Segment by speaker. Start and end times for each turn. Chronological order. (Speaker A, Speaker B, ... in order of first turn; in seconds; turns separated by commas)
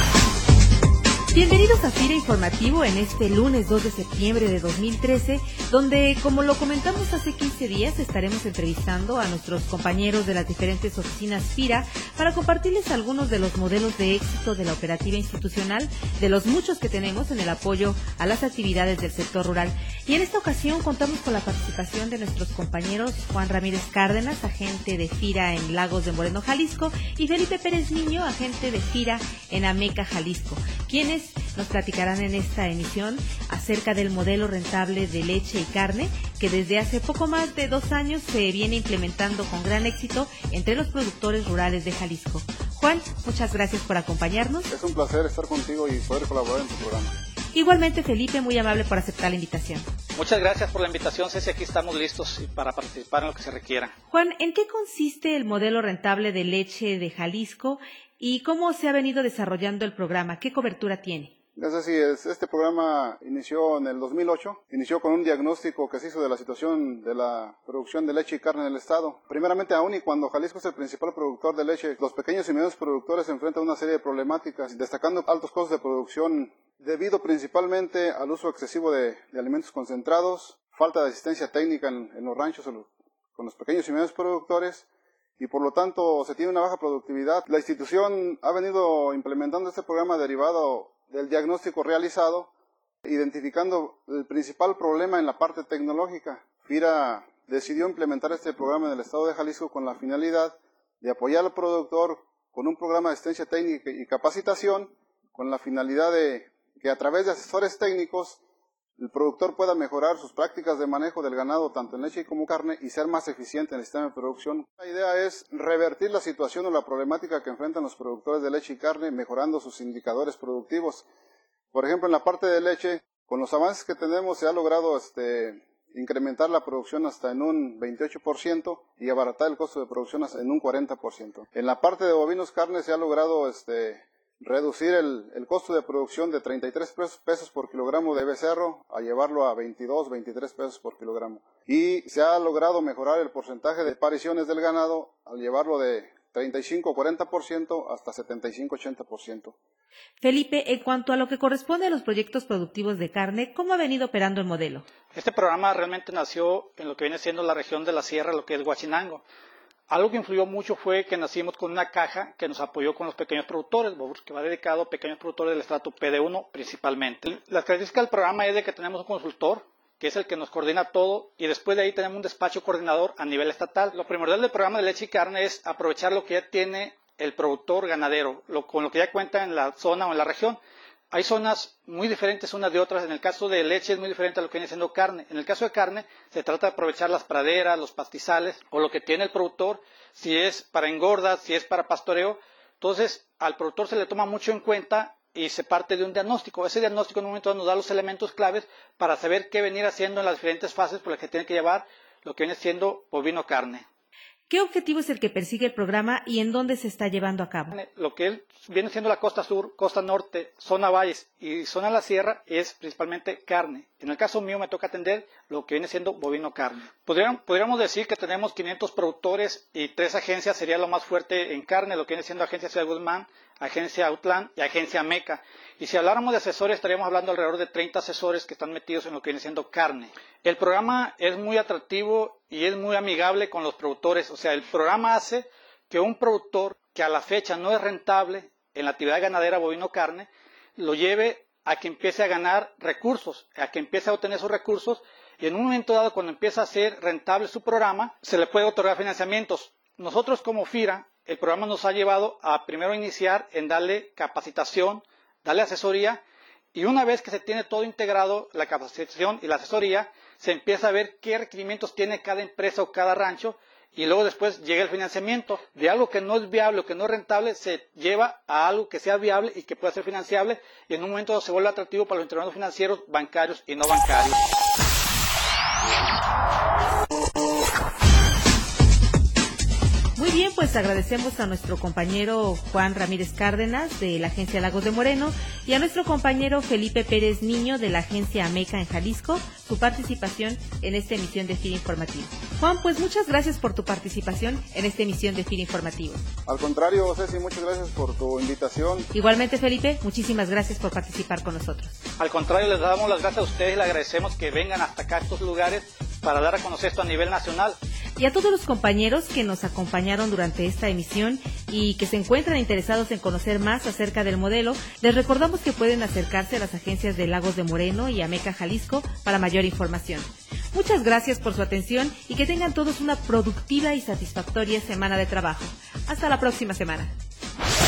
Speaker A: 1.3-44.7, Speaker B: 44.7-47.1, Speaker A: 47.5-49.9, Speaker C: 50.1-53.9, Speaker A: 54.1-61.3, Speaker B: 61.5-84.8, Speaker B: 85.4-92.5, Speaker B: 93.0-108.4, Speaker B: 109.0-121.1, Speaker B: 121.7-149.5, Speaker A: 150.2-154.8, Speaker C: 155.1-159.2, Speaker C: 159.9-180.6, Speaker C: 181.1-203.8, Speaker A: 204.5-207.7, Speaker C: 207.7-256.2, Speaker C: 256.7-274.4, Speaker A: 280.1-296.2, Speaker B: 296.5-299.1, Speaker A: 299.1-302.0, Speaker C: 302.2-307.8, Speaker A: 308.2-327.1